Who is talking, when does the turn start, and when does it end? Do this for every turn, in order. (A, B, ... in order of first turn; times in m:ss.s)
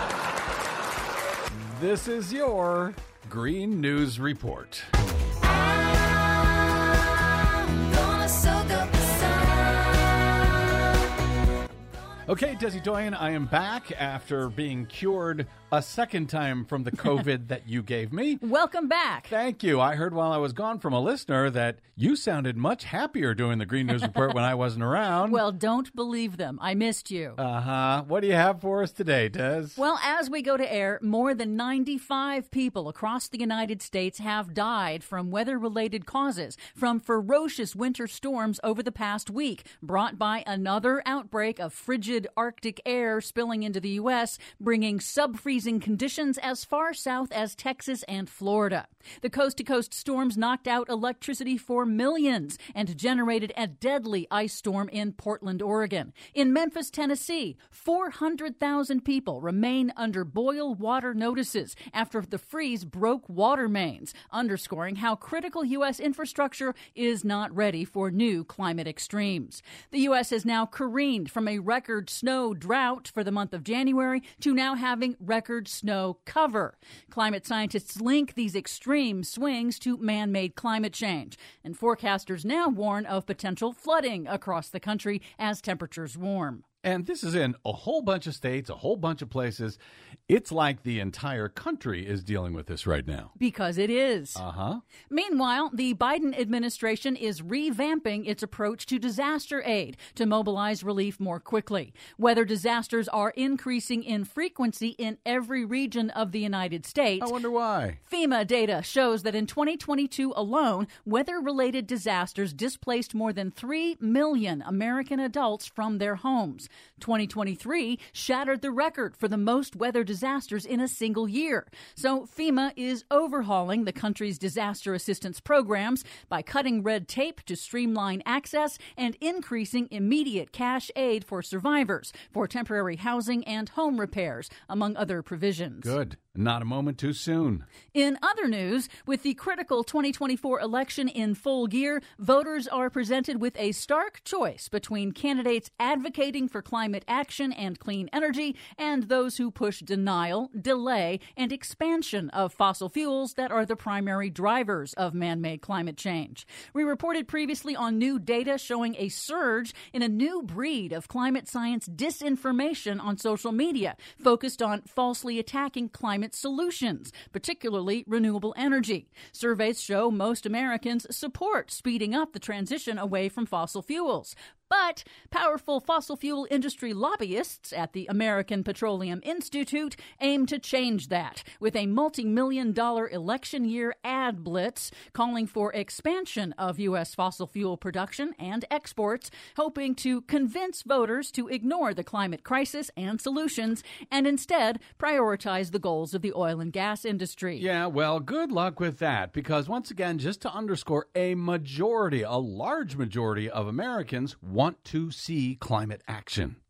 0:01.6-0:04.9 A
0:05.6-0:06.1 B
0:07.5-0:10.3 B
0:12.3-0:18.4 A
0:18.4-0:19.3 B
0:19.3-0:25.4 A
0:25.3-0:27.4 B
0:27.4-0:29.8 A
0:29.8-1:26.6 B
1:26.8-1:33.3 A
1:33.4-1:34.4 B
1:34.4-1:34.8 A
1:35.1-1:47.3 B
1:47.2-1:48.0 A
1:48.0-2:16.0 B
2:15.8-2:17.6 A
2:17.9-3:17.7 B
3:17.6-3:26.6 A